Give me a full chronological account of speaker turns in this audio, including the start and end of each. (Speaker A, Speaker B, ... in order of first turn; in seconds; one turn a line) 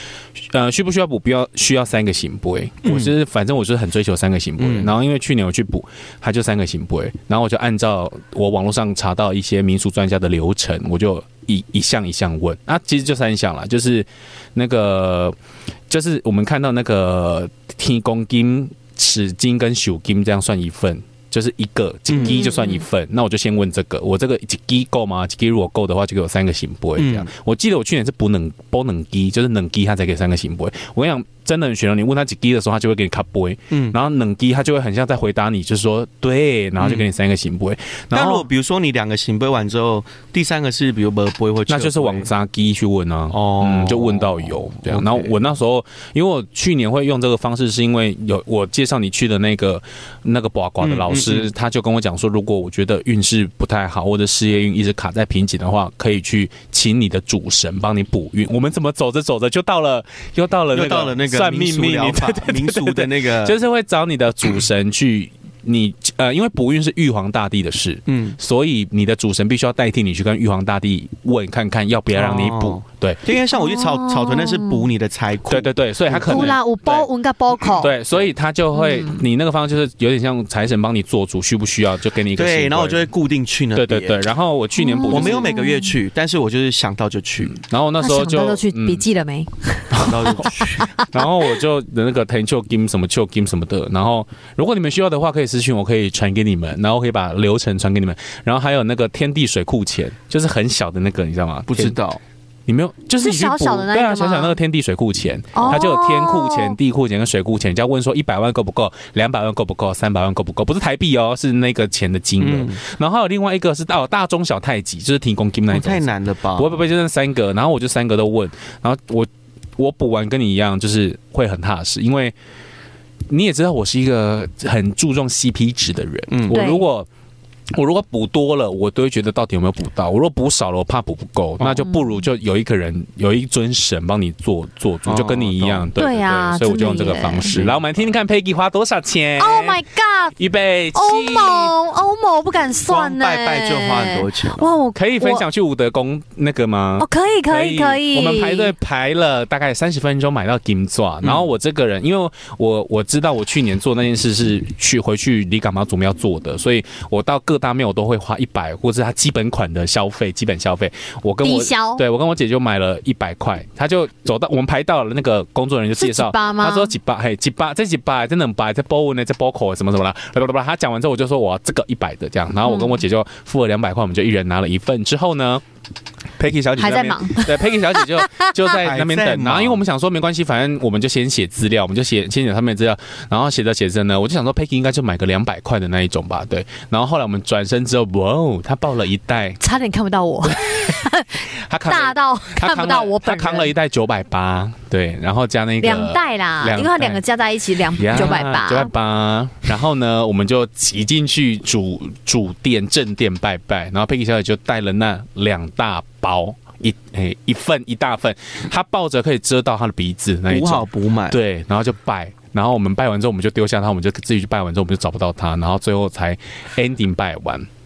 Speaker A: 0.3-15.3
Speaker B: 2.8-3.1
Speaker B: 4.6-4.9
Speaker A: 15.9-38.5
Speaker B: 22.1-22.4
Speaker C: 22.2-22.8
Speaker B: 27.0-27.3
Speaker B: 33.7-34.0
Speaker B: 36.8-37.1
Speaker B: 38.1-42.3
Speaker A: 41.7-73.2
Speaker B: 43.3-45.4
Speaker B: 50.8-51.5
Speaker B: 60.7-63.6
Speaker B: 68.1-68.4
Speaker B: 72.1-76.6
Speaker C: 73.5-74.8
Speaker A: 75.5-77.1
Speaker C: 76.2-77.9
Speaker A: 77.8-83.1
Speaker C: 78.7-79.2
Speaker B: 82.3-84.2
Speaker A: 83.7-85.5
Speaker C: 84.8-85.9
Speaker B: 85.1-87.6
Speaker A: 87.4-89.0
Speaker C: 88.0-91.2
Speaker A: 89.9-90.5
Speaker B: 89.9-90.9
Speaker A: 91.0-102.0
Speaker B: 101.7-102.2
Speaker A: 102.7-122.3
Speaker C: 103.2-104.6
Speaker C: 105.5-106.7
Speaker B: 112.4-112.8
Speaker B: 115.7-116.8
Speaker A: 123.3-127.1
Speaker B: 126.3-126.6
Speaker C: 126.5-126.8
Speaker A: 127.7-139.8
Speaker B: 135.1-135.9
Speaker C: 136.0-137.6
Speaker B: 137.5-137.8
Speaker C: 139.4-140.4
Speaker A: 140.4-141.7
Speaker C: 140.9-145.4
Speaker B: 142.9-144.7
Speaker A: 144.9-175.6
Speaker C: 147.0-148.7
Speaker C: 161.4-162.0
Speaker C: 166.0-166.9
Speaker C: 172.6-173.0
Speaker A: 176.4-189.6
Speaker C: 176.8-178.5
Speaker B: 178.8-179.8
Speaker C: 189.6-193.7
Speaker A: 190.4-191.0
Speaker A: 191.6-197.2
Speaker C: 195.8-198.9
Speaker A: 197.9-217.7
Speaker B: 210.5-211.4